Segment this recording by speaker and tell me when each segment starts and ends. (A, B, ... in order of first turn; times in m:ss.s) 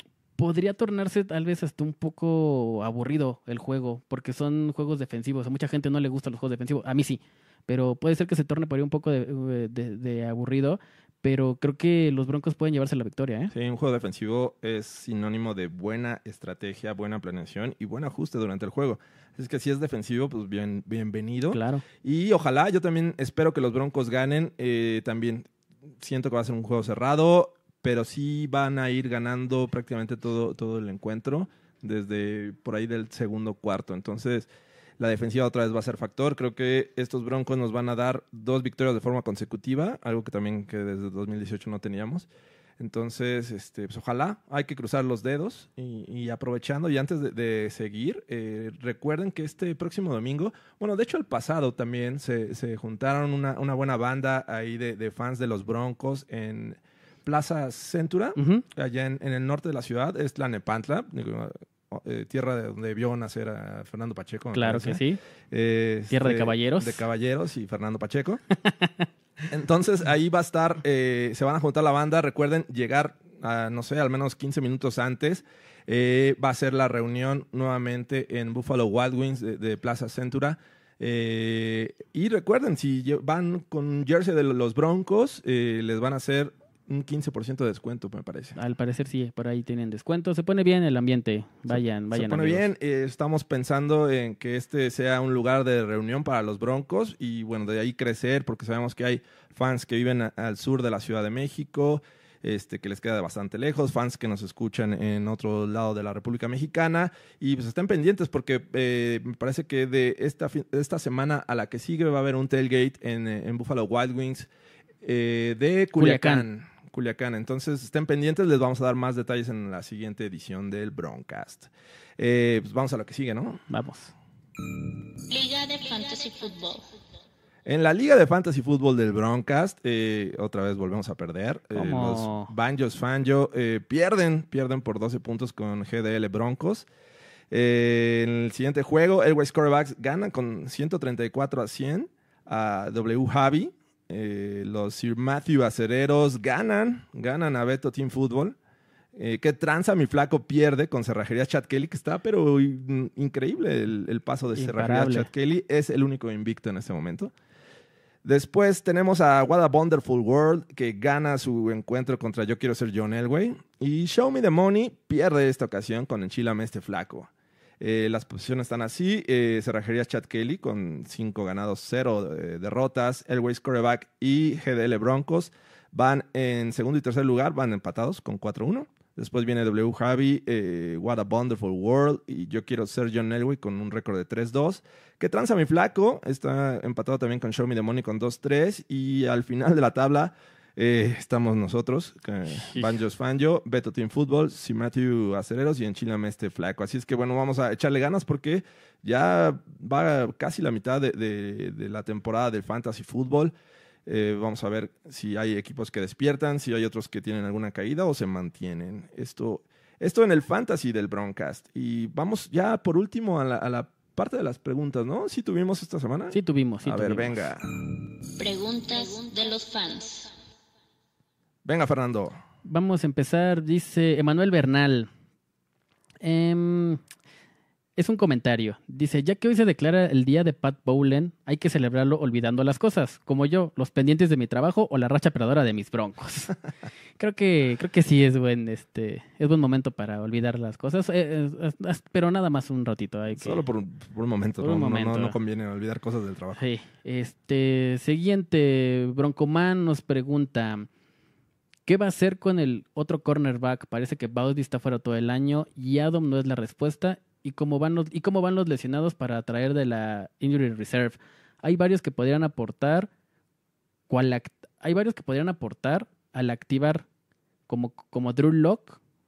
0:00.4-0:13.5 A
0:13.5-0:25.5 B
0:21.5-0:21.8 A
0:26.0-0:42.3 B
0:42.8-1:08.4 B
0:58.4-0:58.6 A
1:04.5-1:05.2 A
1:06.1-1:07.0 A
1:09.5-1:28.6 B
1:28.6-1:32.6 A
1:31.7-1:54.5 B
1:55.0-2:03.6 B
1:55.9-1:56.4 A
2:03.7-2:04.1 A
2:05.3-2:06.9 C
2:07.6-2:16.9 B
2:11.7-2:12.5 A
2:17.5-2:28.6 B
2:29.1-2:37.3 B
2:34.5-2:35.3 A
2:38.2-3:23.5 B
3:12.5-3:13.0 A
3:24.0-3:37.6 B
3:36.3-3:37.5 A
3:38.4-3:40.3 C
3:41.6-3:42.4 B
3:42.6-3:45.1 A
3:46.2-3:47.0 A
3:48.0-3:56.5 A
3:57.2-4:03.6 A
4:03.3-4:06.6 B
4:04.6-4:05.4 A
4:06.5-4:10.9 A
4:11.8-4:23.1 A
4:24.1-4:27.0 A
4:27.7-4:29.0 A